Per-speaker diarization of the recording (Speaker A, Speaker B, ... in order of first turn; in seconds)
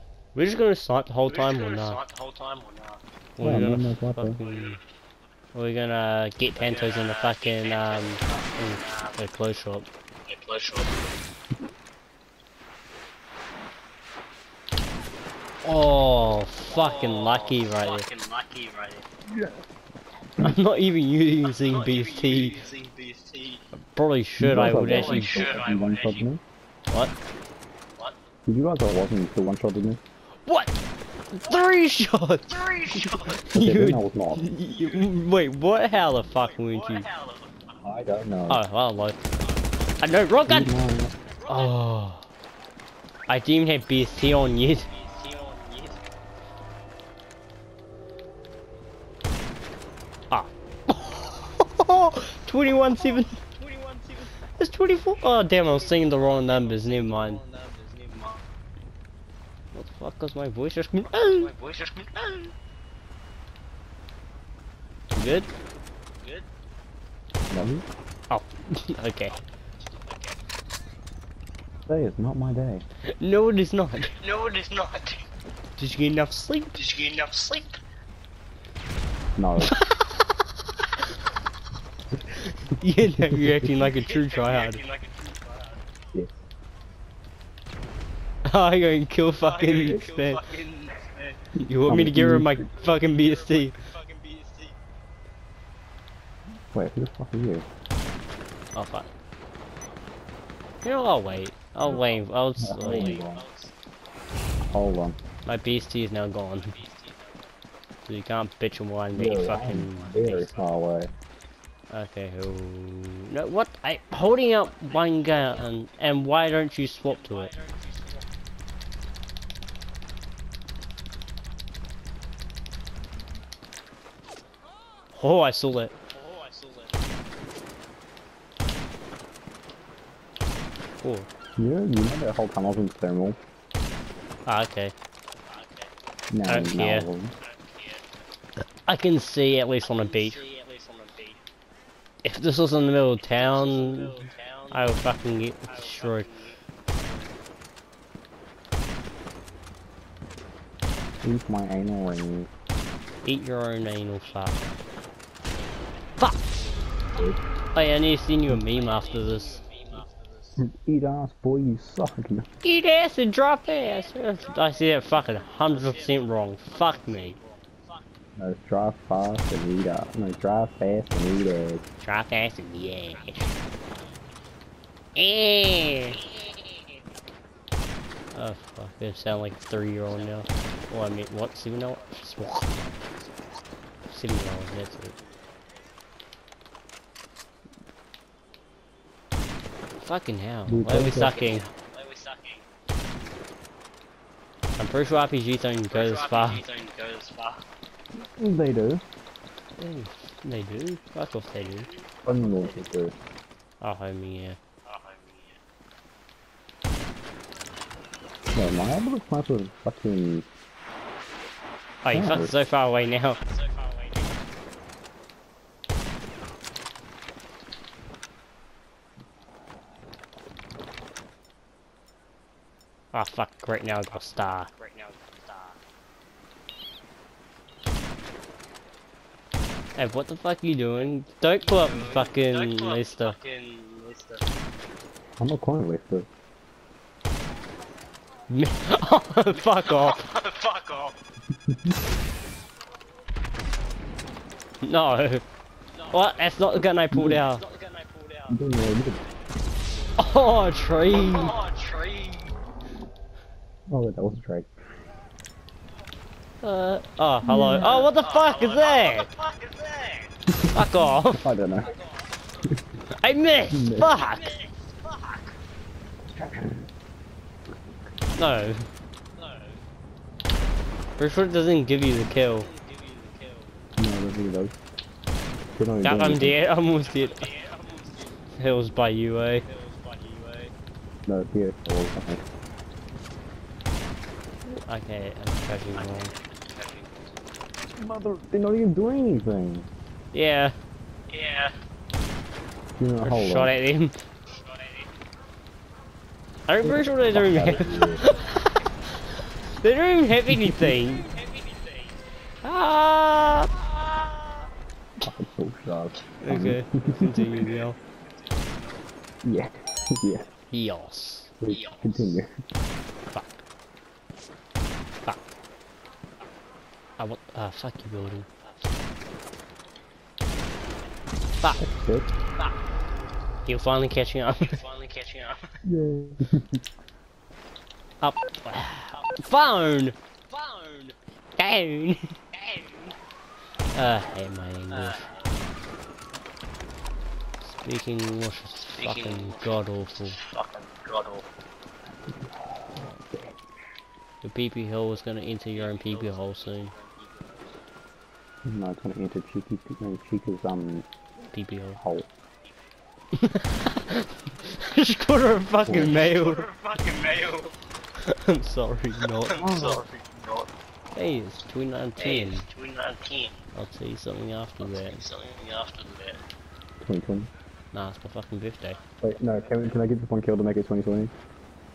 Speaker A: 0.3-2.0, 3.4-4.8, 5.5-9.9, 15.6-18.1, 20.4-22.6, 23.8-25.6, 30.4-30.8, 31.3-37.1, 38.5-39.3, 40.0-40.8, 41.5-42.3, 43.3-44.9, 50.3-53.4, 54.6-57.4, 59.7-61.5, 65.1-65.5, 68.3-69.3, 73.1-74.2, 75.8-76.7, 79.6-80.1, 82.7-84.8, 88.5-90.4, 91.6-93.8, 98.7-99.1, 100.8-103.2, 105.5-106.8, 108.1-110.5, 111.9-117.5, 125.1-125.9, 131.0-131.3, 134.5-134.9, 136.5-137.1, 138.8-140.4, 142.2-144.2, 144.7-146.3, 153.2-154.6, 157.7-159.6, 162.6-167.3, 172.0-173.5, 175.1-176.2, 178.3-182.7, 184.1-185.1, 190.0-191.7, 194.8-196.6, 199.8-201.9, 203.8-204.6, 212.0-213.4, 223.1-224.7, 230.0-233.3, 238.5-240.2, 244.8-245.4, 246.1-247.6, 250.2-251.6, 256.6-259.3, 260.7-261.4, 263.2-264.5, 268.3-268.9, 271.2-272.7, 276.0-277.5, 278.6-279.6, 284.7-286.3, 290.3-290.8, 293.2-294.2, 296.7-298.8, 299.8-301.3, 302.6-303.9, 306.4-307.9, 310.7-311.5, 313.3-313.6, 317.2-318.5, 323.6-324.8, 328.2-330.1, 331.6-332.4, 333.9-335.2, 337.6-340.4, 344.4-346.9, 351.5-352.0, 353.3-356.7, 358.2-359.7, 361.1-362.7, 363.7-365.2, 367.9-369.0
Speaker B: 1.3-3.0, 4.4-4.8, 6.5-9.6, 10.3-11.0, 16.6-19.1, 21.4-23.6, 24.9-26.3, 32.5-33.4, 34.6-35.1, 36.2-38.0, 39.4-40.4, 41.2-41.8, 44.6-46.0, 52.9-54.5, 55.1-58.4, 61.0-62.5, 66.2-66.5, 70.0-70.3, 74.0-75.2, 76.7-77.8, 83.8-85.8, 89.4-91.4, 92.8-94.8, 101.8-102.2, 102.8-103.7, 106.5-107.7, 110.3-110.7, 114.3-118.3, 126.1-127.1, 135.5-135.9, 137.4-138.1, 139.8-141.4, 143.2-145.0, 145.7-147.3, 154.2-155.1, 157.1-157.3, 158.7-160.6, 163.7-168.1, 172.9-173.6, 176.2-177.0, 180.1-180.9, 181.7-183.6, 185.1-186.0, 191.1-192.7, 195.9-197.6, 201.6-202.8, 204.8-205.6, 212.8-214.5, 224.1-225.8, 231.6-234.4, 239.5-241.2, 245.9-246.7, 247.5-248.6, 251.1-252.5, 257.9-260.4, 261.9-262.7, 264.0-265.6, 269.4-269.8, 272.0-273.9, 277.0-278.4, 279.6-280.7, 286.0-287.3, 291.3-291.7, 294.6-295.1, 301.0-302.2, 307.5-309.1, 311.6-312.4, 324.6-325.8, 329.1-329.5, 330.5-331.1, 332.5-333.2, 334.9-335.6, 338.9-341.5, 345.7-347.8, 355.9-357.8, 359.2-360.7, 362.2-363.6, 364.8-366.4, 368.8-370.0
Speaker C: 3.4-4.4, 19.3-19.6, 24.4-26.4, 28.4-30.0, 33.5-34.4, 37.8-38.6, 40.5-41.1, 67.5-67.8, 71.9-72.8, 79.3-79.8, 83.2-83.7, 91.9-92.7, 96.7-97.7, 102.6-103.4, 104.6-105.2, 109.1-111.1, 131.6-133.4, 136.3-137.3, 151.2-152.5, 160.6-162.5, 168.4-171.8, 190.7-191.3, 198.2-199.0, 202.2-203.1, 208.5-210.5, 212.1-212.5, 235.4-236.3, 241.6-242.0, 247.1-247.4, 248.5-249.2, 253.9-254.7, 257.4-258.1, 260.5-261.9, 263.7-264.2, 266.3-266.9, 274.0-274.7, 275.8-276.6, 281.3-282.4, 288.0-289.9, 293.0-293.7, 296.8-298.2, 300.5-301.0, 305.2-307.5, 309.4-310.5, 311.6-312.5, 321.8-322.3, 325.8-326.8, 342.1-343.6, 348.6-351.1, 352.0-352.3, 355.8-356.1, 359.6-360.0, 367.0-367.5, 369.2-371.3